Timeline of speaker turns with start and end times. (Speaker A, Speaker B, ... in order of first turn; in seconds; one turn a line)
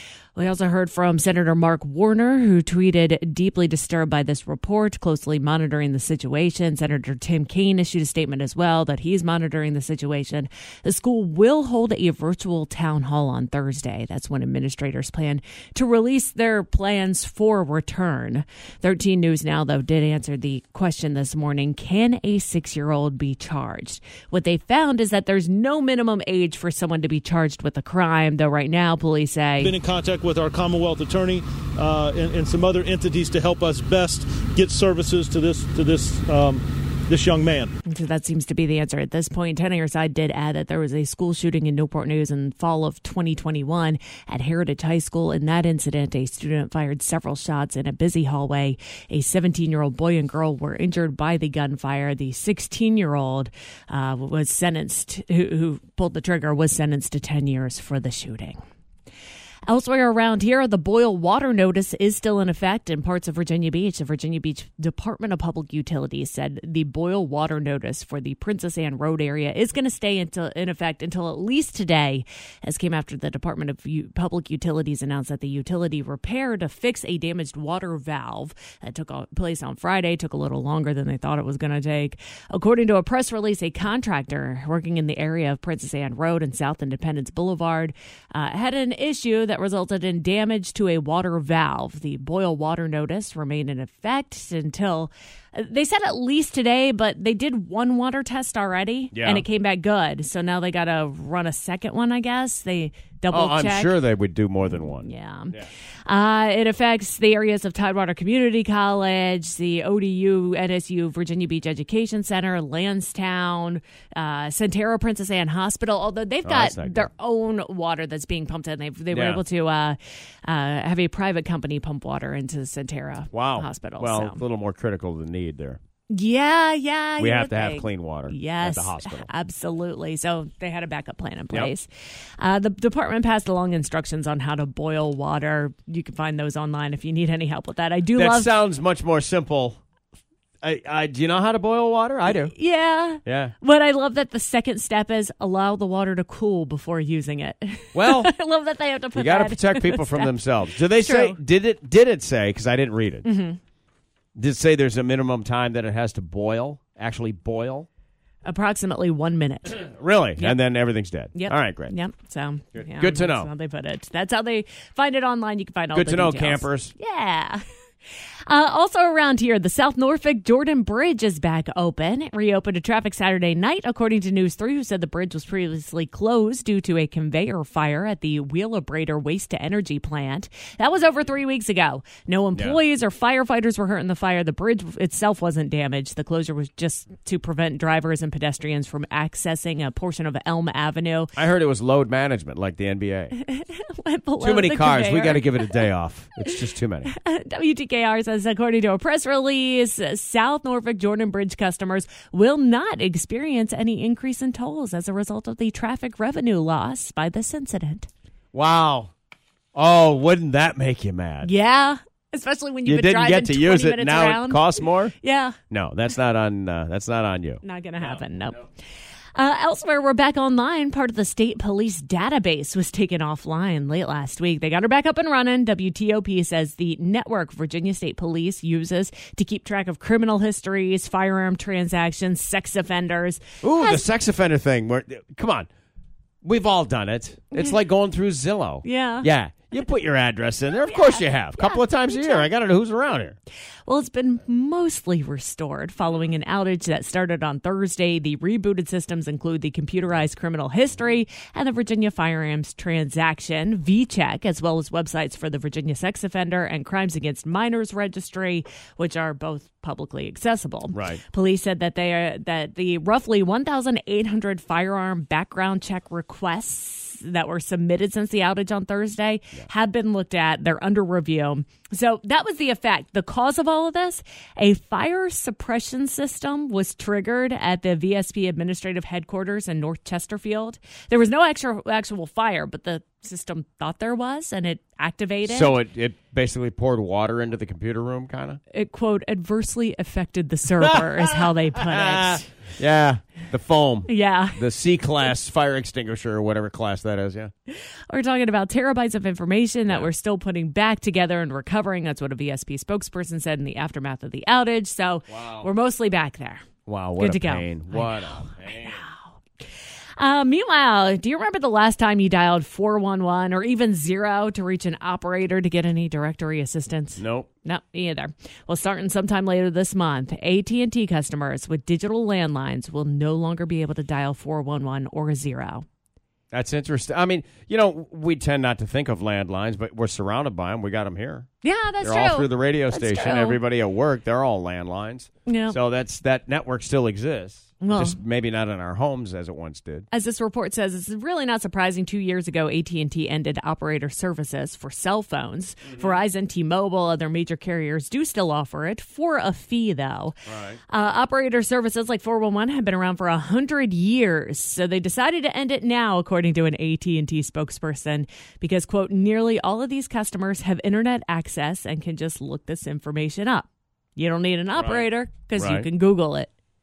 Speaker A: 0.4-29.7
Speaker B: 29.6-37.7
Speaker A: 37.9-58.6
Speaker A: 59.7-103.9
Speaker C: 99.1-99.5
Speaker C: 103.3-105.7
Speaker A: 104.8-124.4
Speaker C: 116.4-117.1
Speaker C: 119.1-119.4
Speaker C: 123.3-125.8
Speaker A: 126.1-131.9
Speaker C: 127.2-129.3
Speaker A: 132.4-138.5
Speaker C: 138.2-139.8
Speaker C: 140.6-142.5
Speaker A: 142.4-150.3
Speaker C: 143.2-143.5
Speaker C: 147.9-148.3
Speaker C: 149.2-153.3
Speaker A: 150.8-151.4
Speaker A: 153.2-153.6
Speaker C: 154.3-157.9
Speaker A: 158.4-159.8
Speaker C: 159.7-161.9
Speaker A: 161.3-167.6
Speaker C: 162.8-163.5
Speaker C: 165.9-166.9
Speaker A: 168.5-191.3
Speaker C: 191.4-193.3
Speaker A: 193.3-195.8
Speaker C: 194.4-197.1
Speaker A: 196.5-208.1
Speaker C: 208.5-209.1
Speaker C: 209.7-211.5
Speaker A: 211.4-215.6
Speaker C: 212.8-215.1
Speaker C: 215.7-218.6
Speaker A: 217.6-218.6
Speaker A: 219.3-234.0
Speaker C: 233.6-235.7
Speaker C: 236.4-243.3
Speaker A: 238.8-239.3
Speaker A: 240.8-242.5
Speaker A: 243.8-285.8
Speaker C: 260.9-261.2
Speaker C: 285.4-288.6
Speaker A: 288.7-292.5
Speaker C: 290.8-297.5
Speaker A: 294.1-294.6
Speaker A: 297.7-306.6
Speaker C: 305.3-305.7
Speaker C: 306.9-309.0
Speaker A: 307.2-309.3
Speaker A: 310.2-325.9
Speaker C: 317.2-317.5
Speaker C: 326.5-331.5
Speaker A: 331.6-333.6
Speaker C: 332.0-340.1
Speaker A: 335.5-335.8
Speaker A: 337.8-338.2
Speaker A: 340.1-366.5
Speaker C: 345.9-346.2
Speaker C: 350.5-350.8
Speaker C: 364.8-365.9